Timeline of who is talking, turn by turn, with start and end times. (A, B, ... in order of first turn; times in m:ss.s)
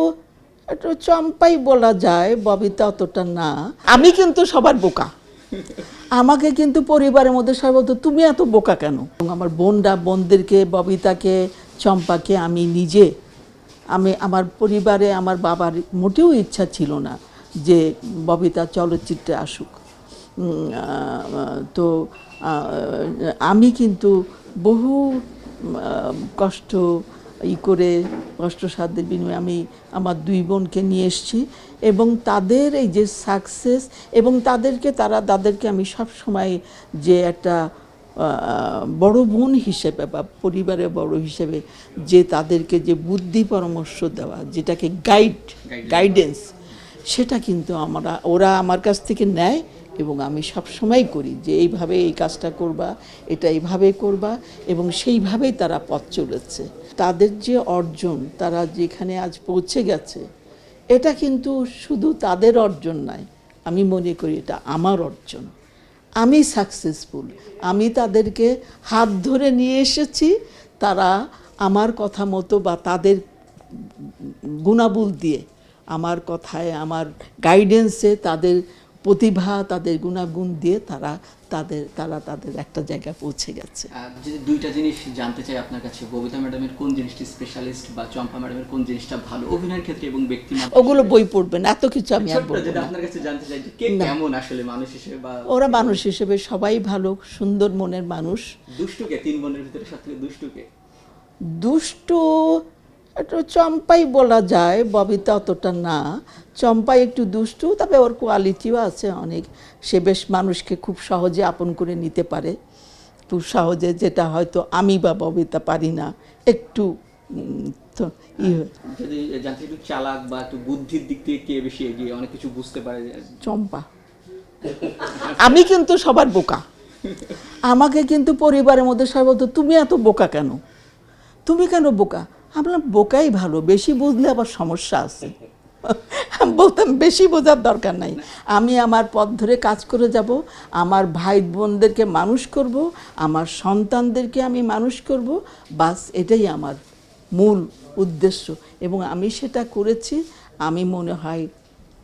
0:00.7-0:05.1 A
0:06.2-0:13.1 A
0:13.9-0:19.8 A
0:20.4-0:21.9 A
0:22.4-0:24.1 A
0:24.6-0:26.8 A
0:27.5-0:37.6 A
0:38.2-0:46.5 A
0:45.7-0:46.2 B
0:47.1-1:00.2 A
1:00.9-1:05.5 A
1:06.2-1:13.2 A
1:13.7-1:23.9 A
1:23.9-1:31.1 B
1:30.6-1:32.9 A
1:32.2-1:36.0 B
1:35.5-1:38.4 A
1:38.8-1:40.7 B
1:41.5-1:42.6 A
1:43.2-1:46.0 A
1:46.6-1:52.5 A
1:53.3-1:58.7 A
1:58.4-2:03.4 B
2:03.4-2:03.8 A
2:04.7-2:06.6 A
2:04.8-2:05.5 B
2:07.1-2:07.3 B
2:07.5-2:10.6 A
2:11.5-2:26.8 A
2:27.4-2:31.5 A